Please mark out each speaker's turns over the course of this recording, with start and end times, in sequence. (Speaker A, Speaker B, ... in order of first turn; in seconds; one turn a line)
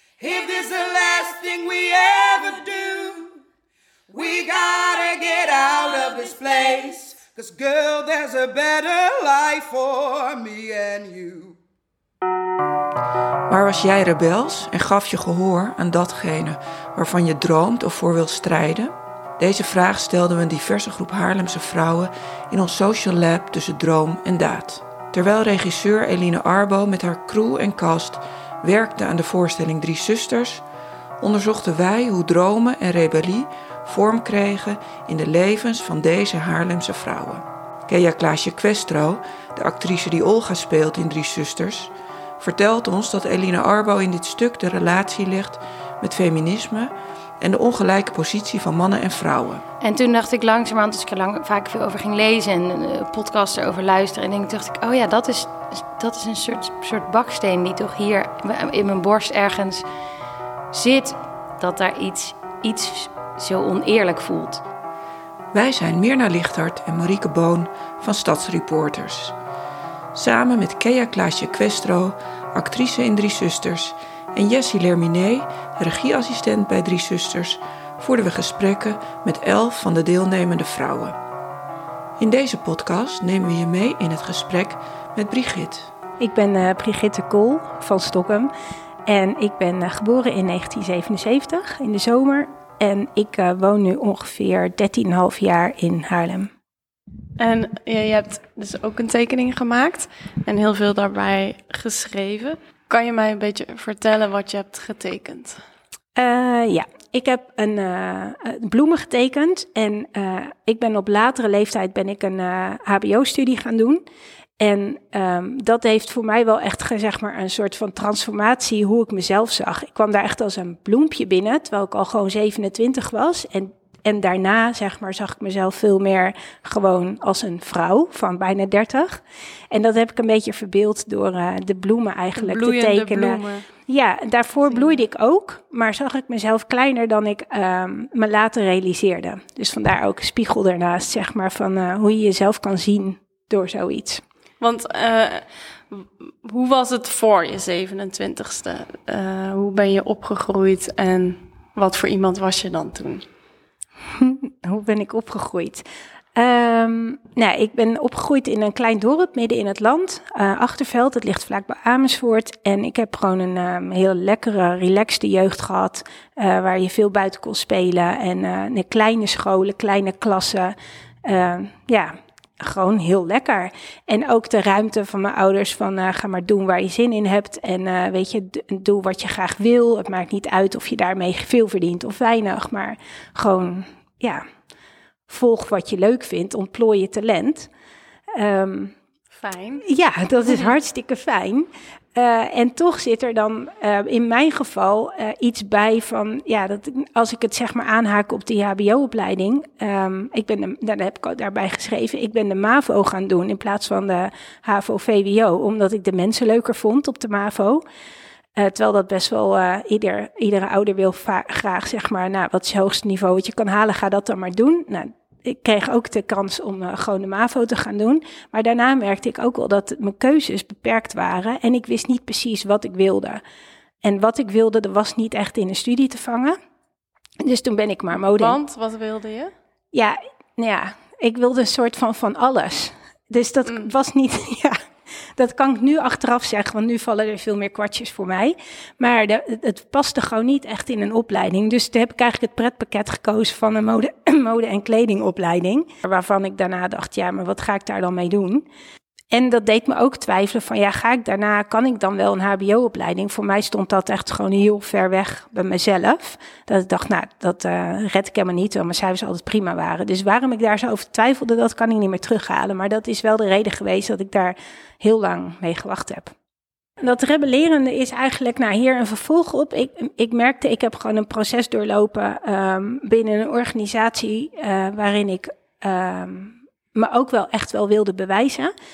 Speaker A: 0.2-3.3
Speaker A: 4.1-11.6
Speaker B: 13.5-30.6
Speaker B: 31.2-49.6
Speaker C: 49.8-59.9
Speaker C: 60.7-64.6
Speaker B: 65.5-69.4
Speaker B: 70.2-81.2
Speaker B: 82.2-85.9
Speaker D: 86.2-88.5
Speaker D: 89.1-96.5
Speaker E: 97.4-105.6
Speaker D: 106.2-114.0
Speaker D: 114.6-144.2
Speaker E: 132.4-133.7
Speaker E: 134.6-135.0
Speaker E: 144.6-153.2
Speaker D: 154.2-155.8
Speaker D: 156.4-184.4
Speaker D: 185.3-187.7
Speaker D: 188.4-188.9
Speaker E: 189.3-189.8
Speaker D: 189.8-207.8
Speaker D: 208.6-223.4
Speaker D: 224.0-226.6
Speaker D: 227.4-228.6
Speaker E: 228.2-229.5
Speaker D: 229.9-234.7
Speaker D: 235.4-248.7
Speaker D: 249.3-266.3
Speaker D: 267.0-278.7